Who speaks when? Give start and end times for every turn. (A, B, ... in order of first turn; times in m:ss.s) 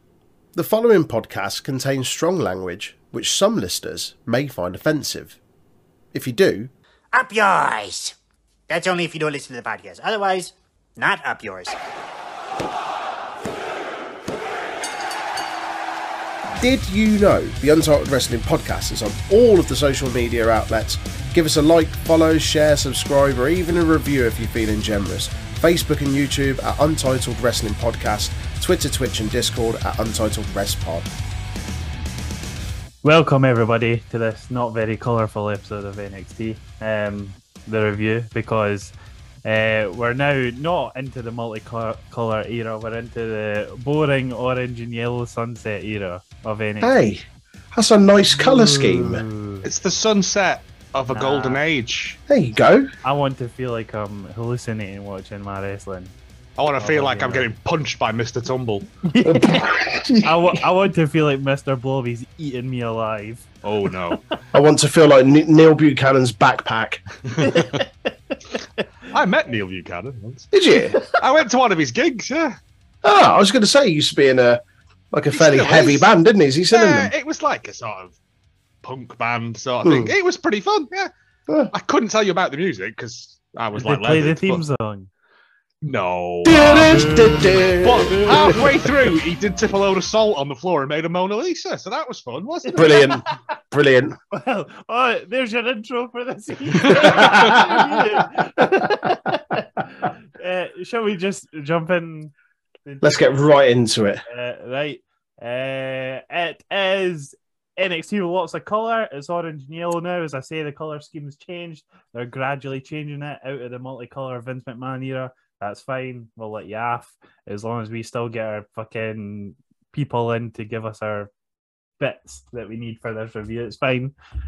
0:00.5-0:05.4 A
0:06.1-0:06.7 A
0:07.1-0:08.1 B
0:08.7-0:11.8 B
0:16.6-0:31.1 A
0:33.0-0:38.9 C
0:39.4-0:46.9 C
0:46.8-0:49.2 A
0:48.3-0:49.6 C
0:49.6-0:52.2 D
0:51.1-0:51.6 C
0:52.3-0:52.9 A
0:53.0-0:56.1 C
0:56.6-0:58.9 D
0:56.8-0:57.5 C
0:59.1-1:03.5 C
0:59.2-1:00.6 A
1:03.6-1:04.2 D
1:04.5-1:07.0 A
1:07.4-1:07.8 D
1:07.4-1:07.9 C
1:09.1-1:10.5 D
1:10.5-1:11.0 A
1:11.2-1:12.6 D
1:13.0-1:17.1 A
1:15.3-1:16.1 D
1:16.7-1:18.2 D
1:18.8-1:21.1 D
1:19.8-1:20.1 A
1:21.7-1:24.6 D
1:23.8-1:25.1 C
1:25.8-1:27.0 D
1:26.4-1:28.7 A
1:26.6-1:28.6 C
1:27.8-1:33.0 D
1:32.7-1:33.2 C
1:32.7-1:34.2 A
1:34.3-1:42.3 C
1:36.8-1:37.4 D
1:36.9-1:38.0 A
1:42.8-1:43.4 C
1:43.0-1:44.2 A
1:44.3-2:01.3 C
2:02.0-2:04.1 C